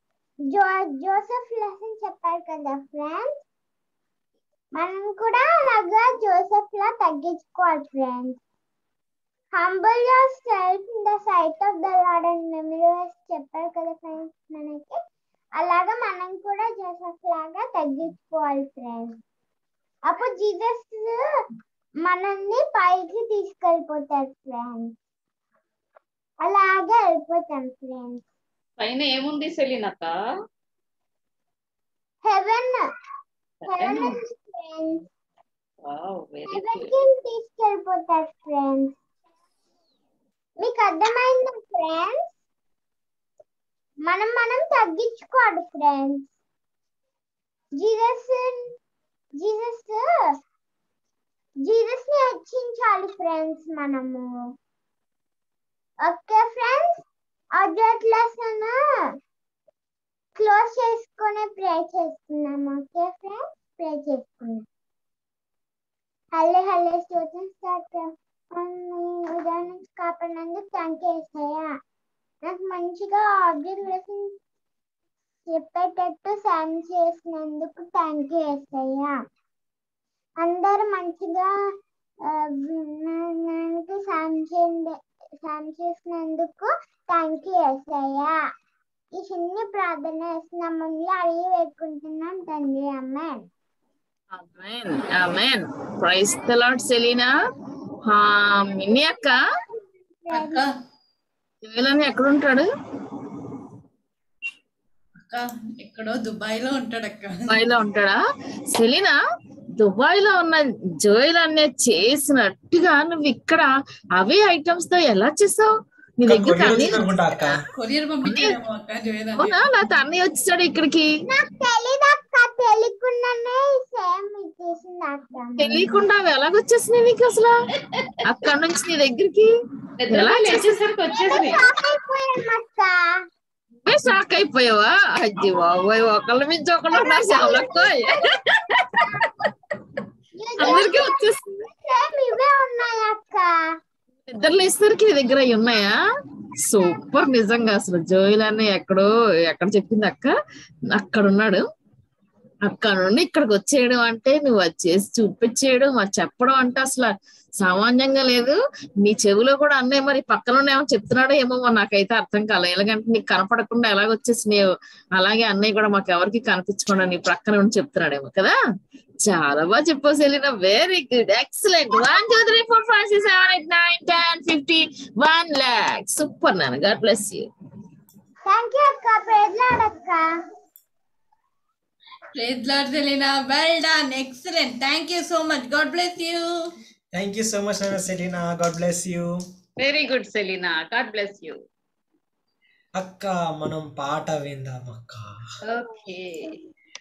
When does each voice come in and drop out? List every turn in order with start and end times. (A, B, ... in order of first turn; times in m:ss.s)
0:00.5-0:03.3 A
0:04.8-0:08.4 A
0:09.5-0:15.0 A
0:15.6-0:19.2 A
0:20.1-0:21.2 A
0:22.0-0:24.9 A
0:26.4-0:28.2 A
0:28.8-0:30.1 B
0:32.2-0:32.8 A
0:33.6-0:34.2 B
0:33.7-0:35.0 A
0:35.8-0:36.9 B
0:36.5-0:38.9 A
0:40.6-0:42.3 A
0:44.1-0:46.3 A
0:47.8-0:48.6 A
0:49.4-0:50.0 A
0:51.7-0:54.3 A
0:56.0-0:57.0 A
0:57.6-0:58.7 A
1:00.4-1:04.6 A
1:06.4-1:11.7 A
1:12.4-1:14.3 A
1:15.5-1:19.1 A
1:20.4-1:21.5 A
1:22.4-1:28.4 A
1:29.2-1:33.4 A
1:34.3-1:37.3 C
1:38.0-1:39.4 C
1:40.2-1:40.6 A
1:40.3-1:40.7 D
1:41.6-1:42.7 C
1:45.3-1:47.5 D
1:47.5-1:48.2 C
1:48.7-1:49.2 C
1:49.8-1:53.6 C
1:54.2-1:57.1 C
1:56.3-1:57.6 E
1:57.3-1:59.5 D
1:58.2-1:58.6 C
1:59.4-2:01.1 C
2:01.3-2:05.8 A
2:05.6-2:07.5 C
2:08.2-2:09.5 C
2:10.0-2:11.6 B
2:10.1-2:10.8 C
2:11.1-2:13.0 A
2:13.8-2:18.1 C
2:16.9-2:17.9 A
2:20.4-2:23.5 A
2:20.6-2:21.4 C
2:24.3-2:25.9 C
2:26.7-2:30.3 C
2:30.9-2:31.6 C
2:32.7-2:44.6 C
2:45.2-2:48.5 C
2:49.2-2:57.4 C
2:58.5-3:00.2 A
3:02.4-3:06.4 D
3:07.1-3:09.3 E
3:09.8-3:11.6 B
3:13.0-3:15.3 E
3:15.6-3:16.6 B